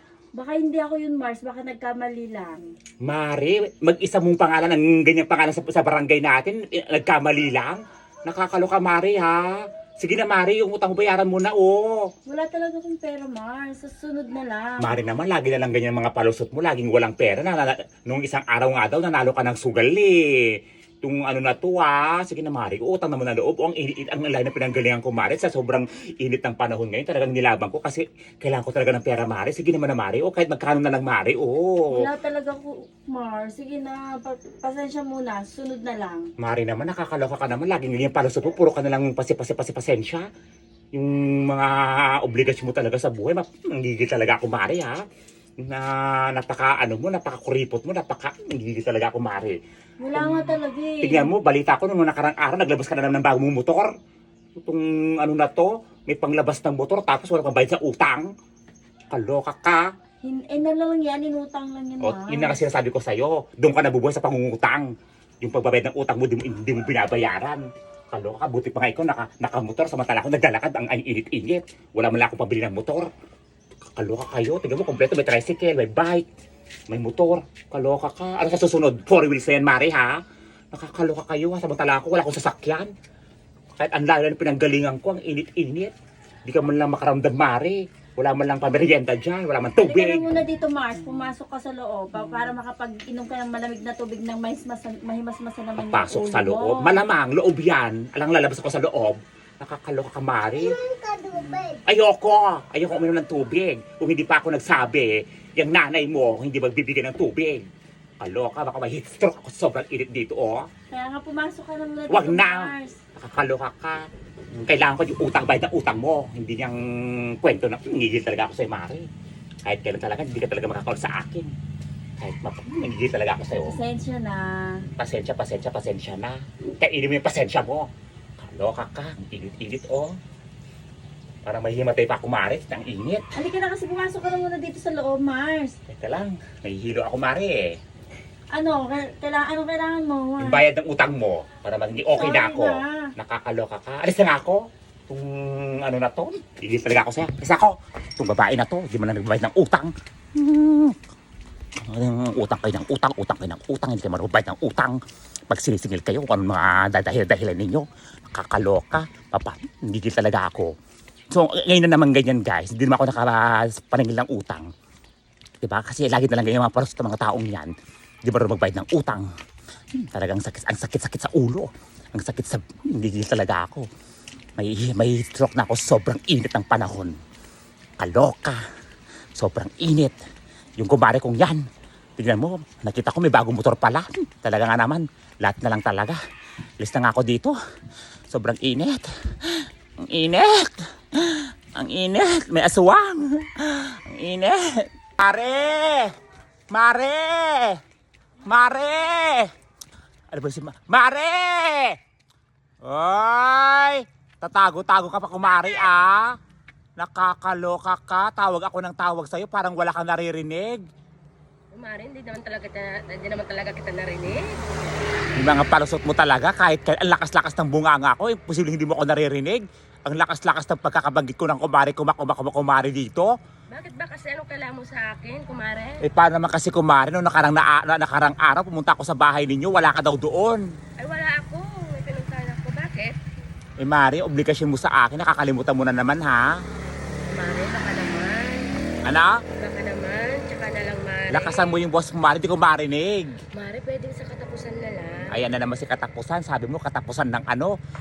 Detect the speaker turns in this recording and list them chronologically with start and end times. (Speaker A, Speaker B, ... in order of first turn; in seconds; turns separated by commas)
Speaker A: 0.3-2.7, Speaker B: 3.0-12.1, Speaker A: 12.2-15.0, Speaker B: 14.8-32.1, Speaker A: 31.9-36.3, Speaker B: 36.4-40.2, Speaker B: 40.9-45.0, Speaker B: 45.6-49.6, Speaker A: 50.0-51.3, Speaker B: 50.1-53.9, Speaker B: 54.6-58.3, Speaker B: 59.1-59.9, Speaker A: 60.2-62.6, Speaker B: 62.0-64.9, Speaker B: 65.4-73.1, Speaker B: 74.0-76.2, Speaker B: 76.9-80.2, Speaker B: 80.7-82.9, Speaker B: 83.8-85.9, Speaker B: 86.5-90.2, Speaker A: 89.8-97.0, Speaker B: 95.8-100.9, Speaker A: 101.0-101.7, Speaker B: 101.8-107.6, Speaker B: 108.2-110.7, Speaker A: 110.9-113.0, Speaker B: 112.1-119.1, Speaker B: 119.6-121.5, Speaker B: 122.2-123.8, Speaker A: 123.6-124.8, Speaker B: 125.0-127.9, Speaker B: 128.4-130.2, Speaker B: 131.4-133.2, Speaker A: 133.3-135.8, Speaker B: 135.9-137.8, Speaker A: 138.5-140.6, Speaker B: 140.4-151.0, Speaker A: 142.1-143.1, Speaker B: 151.8-155.0, Speaker B: 155.5-160.7, Speaker B: 161.3-164.7, Speaker B: 165.6-167.7, Speaker B: 168.2-169.3, Speaker B: 169.9-173.8, Speaker B: 174.6-177.1, Speaker B: 178.0-178.6, Speaker B: 179.3-180.2, Speaker B: 180.8-181.6, Speaker B: 182.2-186.2, Speaker B: 186.8-187.5, Speaker B: 188.3-196.1, Speaker B: 196.7-197.8, Speaker B: 198.4-199.5, Speaker B: 200.3-202.0, Speaker B: 202.8-206.3, Speaker B: 207.0-210.8, Speaker C: 211.7-214.9, Speaker B: 215.3-223.3, Speaker C: 223.7-226.0, Speaker B: 226.0-230.6, Speaker C: 231.0-233.1, Speaker B: 233.8-236.4, Speaker C: 237.3-238.7, Speaker B: 239.1-239.4, Speaker C: 239.6-241.8, Speaker B: 241.3-243.4, Speaker C: 243.5-245.4, Speaker B: 245.3-247.7